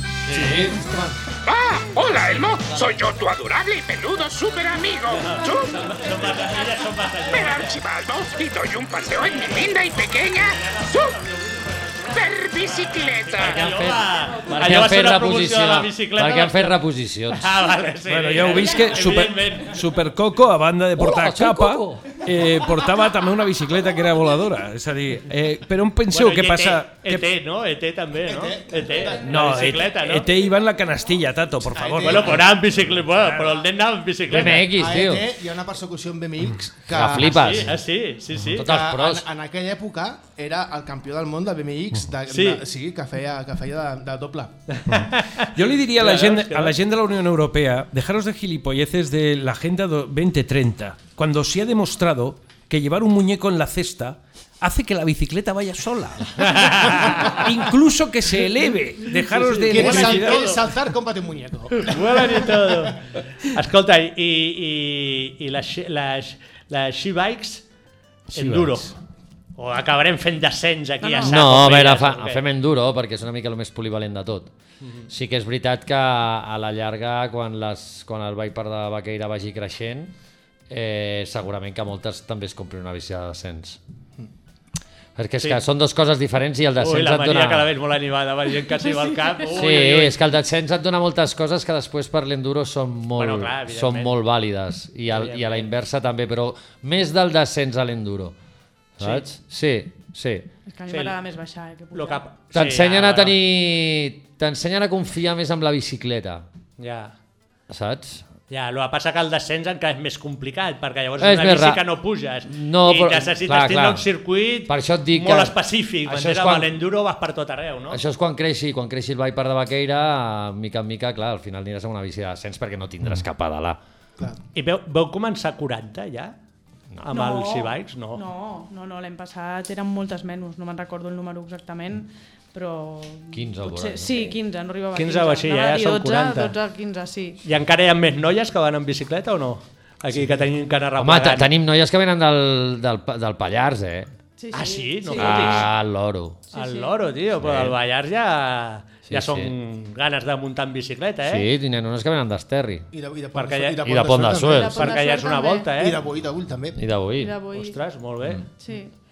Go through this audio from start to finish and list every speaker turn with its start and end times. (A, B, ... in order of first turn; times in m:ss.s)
0:00.3-0:01.2 A
0:01.4-0:05.8 B
0:05.1-0:07.8 C
0:07.3-0:11.1 B
0:10.4-0:12.2 C
0:12.1-0:13.6 B
0:13.1-0:16.8 C
0:13.4-0:17.6 D
0:17.3-0:19.8 C
0:18.1-0:27.3 E
0:21.0-0:22.2 D
0:26.1-0:30.3 C
0:28.2-0:29.3 A
0:28.9-0:29.2 F
0:29.3-0:32.5 E
0:31.7-0:32.5 A
0:31.9-0:34.7 C
0:34.3-0:35.3 D
0:34.3-0:37.6 A
0:36.9-0:37.8 D
0:37.1-0:38.6 C
0:38.5-0:44.6 A
0:38.6-0:39.3 D
0:42.3-0:42.6 C
0:44.7-0:46.8 C
0:44.9-1:00.4 E
0:56.4-0:57.4 C
0:59.3-1:00.6 C
0:59.7-1:02.9 A
1:01.7-1:07.6 C
1:08.3-1:08.9 E
1:08.3-1:08.9 C
1:09.6-1:12.4 C
1:11.0-1:11.4 F
1:11.2-1:14.5 D
1:15.1-1:20.1 D
1:20.7-1:23.8 D
1:25.2-1:27.7 D
1:26.8-1:30.1 C
1:28.9-1:29.2 F
1:29.5-1:38.4 D
1:33.2-1:34.1 C
1:35.1-1:35.7 C
1:39.0-1:40.5 D
1:40.7-1:42.2 F
1:40.9-1:41.2 C
1:41.9-1:43.4 C
1:42.5-1:46.4 D
1:46.8-1:47.1 C
1:47.7-1:48.2 D
1:48.5-1:58.0 C
1:51.2-1:51.9 D
1:52.4-1:54.1 D
1:54.7-1:56.8 D
1:57.9-2:03.8 D
2:04.5-2:06.3 C
2:07.0-2:08.2 C
2:07.1-2:17.4 F
2:13.3-2:14.4 D
2:15.0-2:16.5 C
2:17.4-2:21.5 C
2:21.0-2:24.1 D
2:24.4-2:25.7 F
2:24.5-2:25.7 C
2:25.2-2:26.4 D
2:26.5-2:27.0 F
2:26.5-2:31.4 C
2:27.4-2:27.8 D
2:29.1-2:29.5 D
2:31.2-2:32.9 D
2:32.9-2:34.7 A
2:33.4-2:33.8 C
2:33.8-2:34.9 D
2:34.5-2:35.7 F
2:34.8-2:36.0 C
2:35.8-2:36.8 A
2:36.8-2:37.4 D
2:37.2-2:37.8 F
2:37.5-2:38.4 C
2:38.6-2:38.9 F